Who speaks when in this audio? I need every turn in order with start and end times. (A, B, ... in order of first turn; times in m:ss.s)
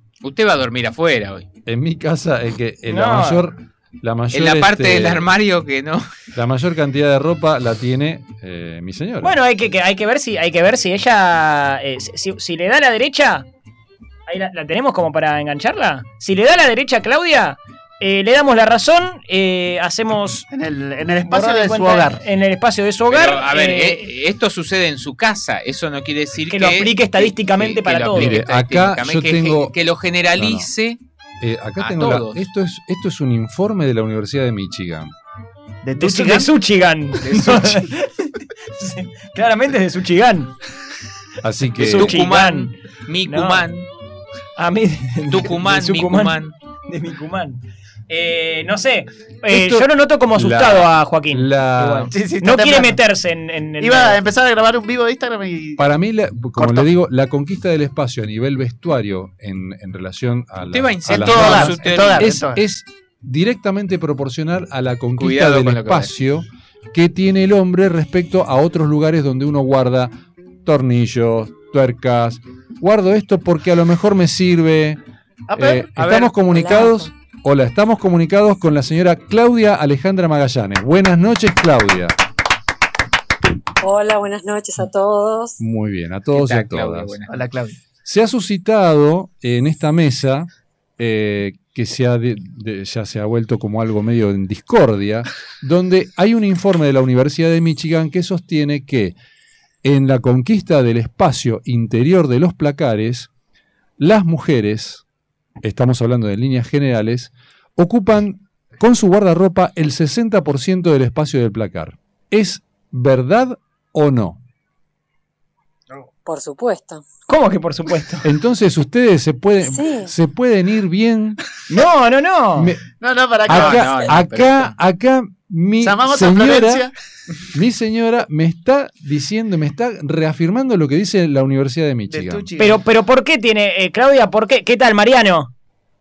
0:00.2-0:01.5 A
0:01.7-0:05.3 B
0:02.9-0:03.5 C
0:04.3-0:06.1 A
0:06.4-0:09.4 B
0:09.2-0:13.5 C
0:14.3-0:20.5 C
0:20.5-0:22.2 D
0:21.2-0:24.1 C
0:23.1-0:31.0 A
0:26.5-0:28.4 C
0:28.1-0:29.8 B
0:30.4-0:30.7 B
0:31.4-0:35.1 B
0:31.8-0:32.4 A
0:35.8-0:36.5 D
0:36.0-0:40.5 C
0:37.2-0:37.9 A
0:41.4-0:42.1 B
0:41.8-0:43.9 A
0:41.9-0:42.7 C
0:43.3-0:43.7 C
0:44.6-0:54.2 C
0:45.3-0:46.5 A
0:49.5-0:52.1 B
0:52.1-0:53.0 D
0:53.8-0:55.9 D
0:55.8-1:15.0 B
0:56.6-0:56.9 D
1:00.7-1:02.3 A
1:01.1-1:02.6 D
1:05.2-1:06.1 A
1:15.5-1:15.9 D
1:15.5-1:22.2 B
1:16.0-1:16.4 A
1:16.4-1:17.1 E
1:23.8-1:25.6 E
1:25.6-1:27.2 B
1:26.4-1:27.3 A
1:27.3-1:27.8 D
1:28.0-1:39.2 B
1:39.8-1:43.3 B
1:44.0-1:45.0 B
1:45.6-1:54.4 B
1:56.2-1:57.0 E
1:57.3-1:58.3 C
1:58.2-2:01.4 B
1:59.6-2:00.1 E
2:01.7-2:02.8 C
2:02.6-2:02.8 B
2:03.0-2:04.0 D
2:03.4-2:06.9 B
2:03.5-2:04.7 A
2:05.8-2:06.9 D
2:07.5-2:12.5 B
2:12.1-2:12.8 D
2:12.6-2:15.5 C